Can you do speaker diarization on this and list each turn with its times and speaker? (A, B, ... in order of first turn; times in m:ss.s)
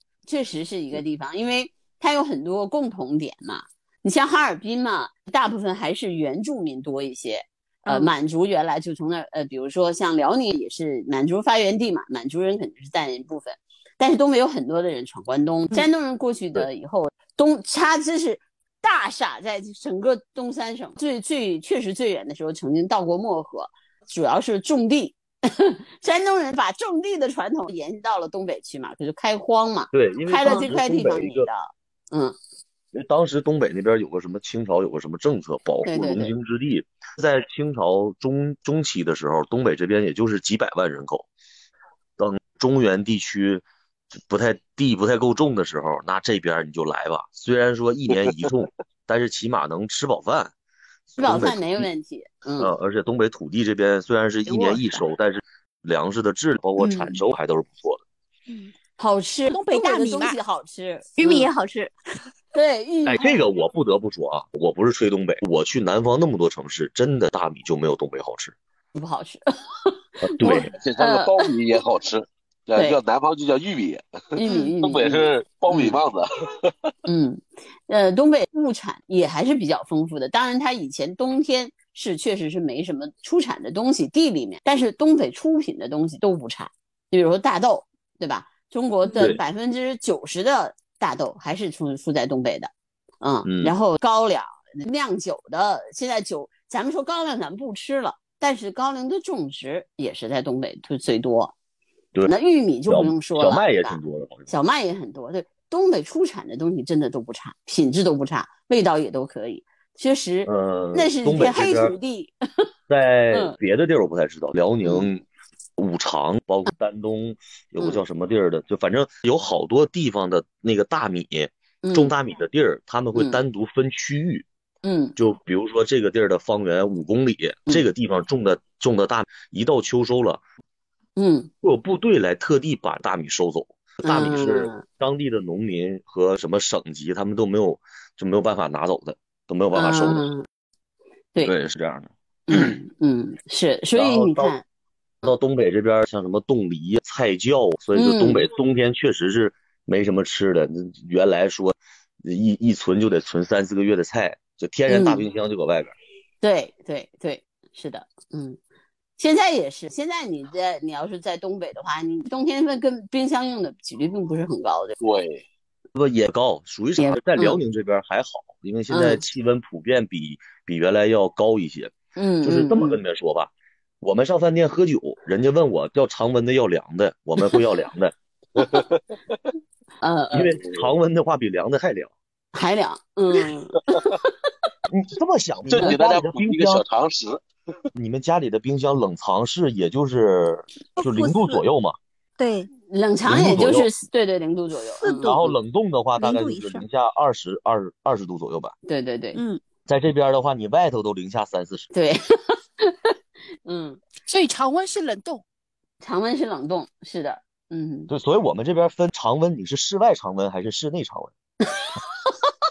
0:00.3-0:32.4 A
0:07.8-0:08.1 B
0:29.9-0:31.5 C
0:32.9-0:41.3 C
0:35.8-0:36.3 A
0:42.2-0:50.5 C
0:51.1-0:51.8 C
0:51.2-0:52.7 A
0:52.6-0:58.0 C
0:54.5-0:54.8 D
0:56.8-0:57.2 B
0:59.0-1:01.5 A
0:59.5-1:00.4 D
1:01.2-1:01.9 B
1:02.5-1:03.4 A
1:03.0-1:08.5 C
1:08.9-1:11.5 A
1:10.2-1:10.7 C
1:10.5-1:16.7 E
1:14.4-1:16.0 A
1:17.0-1:41.5 A
1:29.2-1:29.4 C
1:33.4-1:33.7 C
1:42.2-1:52.3 A
1:42.9-1:44.5 C
1:50.4-1:51.9 C
1:52.9-1:55.2 C
1:54.8-1:55.1 A
1:55.8-2:04.4 C
2:01.8-2:02.1 A
2:03.1-2:03.4 A
2:04.8-2:05.1 A
2:05.2-2:10.4 C
2:11.2-2:11.5 A
2:11.6-2:20.3 C
2:14.0-2:14.8 A
2:19.7-2:20.4 A
2:21.4-2:22.7 C
2:22.5-2:24.6 A
2:23.9-2:24.6 C
2:25.2-2:35.9 C
2:28.0-2:28.5 A
2:34.9-2:35.2 A
2:36.4-2:38.6 A
2:39.2-2:45.0 A
2:45.0-2:45.4 E
2:45.9-2:58.6 C
2:47.0-2:47.6 A
2:48.9-2:49.2 A
2:52.2-2:53.0 A
2:58.6-2:59.0 E
3:00.0-3:00.6 A
3:00.3-3:02.1 C
3:02.5-3:04.2 A
3:04.9-3:06.8 C
3:05.7-3:07.4 E
3:07.9-3:12.0 C
3:11.0-3:11.6 B
3:12.4-3:12.7 B
3:12.8-3:15.4 A
3:13.3-3:13.9 C
3:15.0-3:15.5 B
3:15.2-3:18.7 C
3:16.2-3:16.8 B
3:18.9-3:19.4 A
3:19.3-3:19.6 B
3:19.8-3:21.9 C
3:21.9-3:23.1 A
3:23.6-3:24.0 A
3:24.2-3:25.4 D
3:26.0-3:28.1 A
3:28.1-3:31.3 C
3:31.7-3:32.5 A